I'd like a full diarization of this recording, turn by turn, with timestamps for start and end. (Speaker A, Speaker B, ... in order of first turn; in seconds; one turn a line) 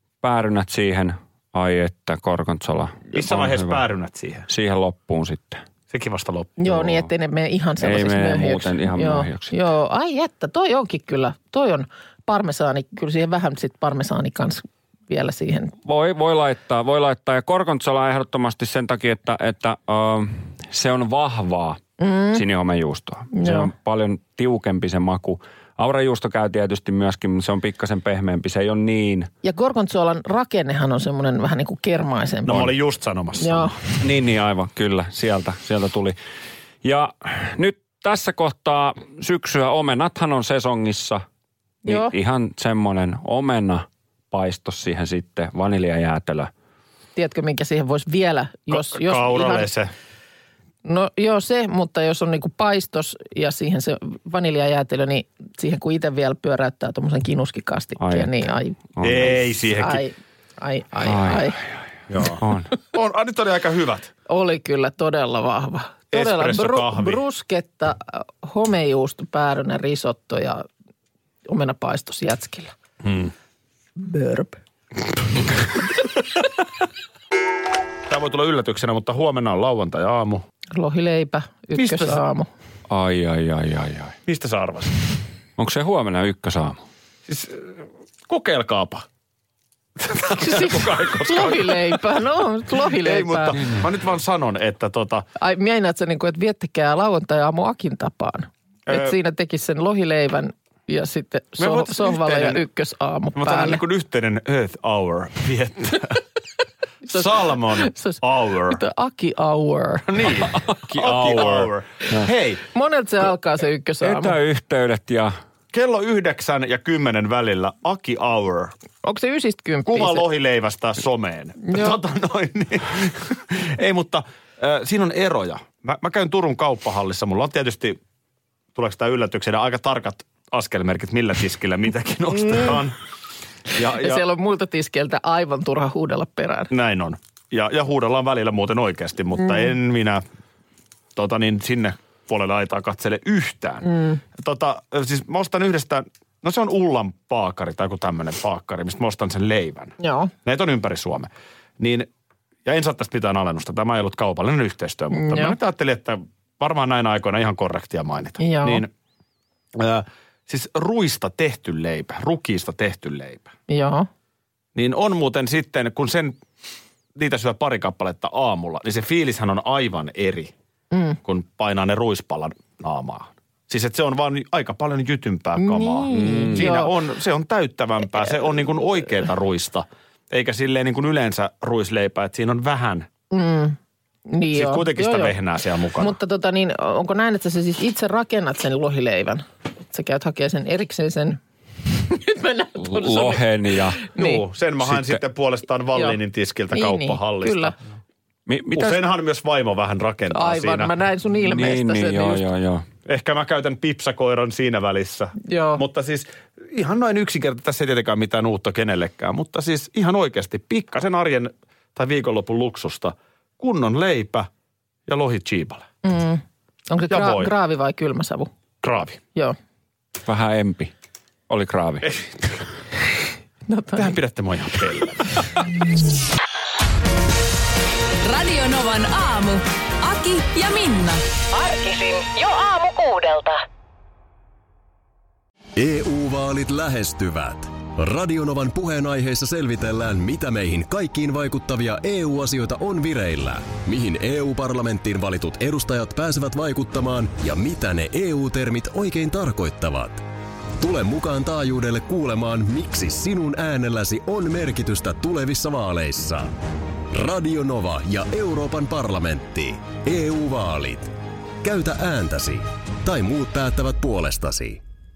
Speaker A: 0.2-3.8
Speaker B: 3.1-4.5
Speaker A: 4.5-5.6
Speaker B: 5.9-6.8
Speaker C: 6.6-15.8
Speaker A: 6.7-7.1
Speaker A: 7.8-9.6
Speaker A: 15.8-29.3
Speaker C: 22.0-22.4
Speaker C: 23.3-23.7
Speaker C: 29.4-32.8
Speaker B: 32.5-33.8
Speaker C: 33.4-33.8
Speaker A: 34.0-36.2
Speaker A: 36.8-41.2
Speaker C: 41.9-42.1
Speaker A: 41.9-46.5
Speaker C: 47.2-49.7
Speaker B: 48.7-49.9
Speaker C: 50.8-58.8
Speaker A: 58.0-58.5
Speaker A: 59.0-59.4
Speaker B: 59.0-60.0
Speaker C: 59.7-61.6
Speaker A: 61.0-61.6
Speaker B: 62.1-64.1
Speaker A: 62.4-62.7
Speaker C: 64.3-70.7
Speaker B: 66.1-67.2
Speaker C: 71.5-72.8
Speaker B: 73.0-73.3
Speaker C: 74.0-74.6
Speaker B: 78.1-80.5
Speaker C: 80.7-82.5
Speaker B: 81.8-82.2
Speaker A: 82.9-84.2
Speaker B: 84.2-85.0
Speaker A: 85.6-86.8
Speaker B: 87.3-89.1
Speaker B: 90.0-92.1
Speaker C: 90.2-93.6
Speaker B: 92.7-95.2
Speaker C: 95.4-103.8
Speaker B: 98.9-99.2
Speaker B: 101.6-102.6
Speaker B: 103.4-106.2
Speaker C: 107.0-110.3
Speaker B: 107.1-108.8
Speaker B: 110.0-112.6
Speaker A: 110.8-112.3
Speaker C: 112.7-114.4
Speaker A: 114.0-115.3
Speaker B: 115.7-118.7
Speaker C: 119.0-120.3
Speaker B: 119.9-128.0
Speaker C: 121.7-122.0
Speaker B: 128.8-133.0
Speaker C: 132.4-132.8
Speaker B: 133.7-134.2
Speaker C: 133.8-136.7
Speaker B: 136.7-140.2
Speaker B: 141.2-152.1
Speaker C: 143.8-144.2
Speaker C: 150.0-150.3
Speaker B: 152.7-158.9
Speaker C: 155.1-155.6
Speaker C: 158.4-158.8
Speaker B: 159.8-163.5
Speaker C: 163.7-164.1
Speaker B: 164.8-166.4
Speaker B: 167.2-170.5
Speaker C: 170.9-171.2
Speaker B: 171.2-183.1
Speaker C: 175.6-176.9
Speaker A: 176.1-176.7
Speaker C: 183.3-185.3
Speaker B: 184.5-186.2
Speaker C: 186.0-194.4
Speaker A: 192.8-194.1
Speaker B: 194.2-197.8
Speaker A: 194.8-195.2
Speaker C: 196.7-197.8
Speaker A: 198.5-199.0
Speaker B: 198.7-200.9
Speaker C: 200.3-202.5
Speaker A: 201.4-202.9
Speaker B: 203.1-214.5
Speaker C: 205.4-205.8
Speaker B: 215.1-215.9
Speaker C: 216.0-218.5
Speaker B: 217.1-217.5
Speaker B: 218.8-219.2
Speaker A: 220.2-220.9
Speaker A: 221.5-222.2
Speaker C: 223.7-224.2
Speaker B: 224.0-225.4
Speaker D: 228.2-231.2
Speaker E: 231.5-233.6
Speaker F: 235.8-250.2
Speaker F: 250.8-256.5
Speaker F: 257.1-264.8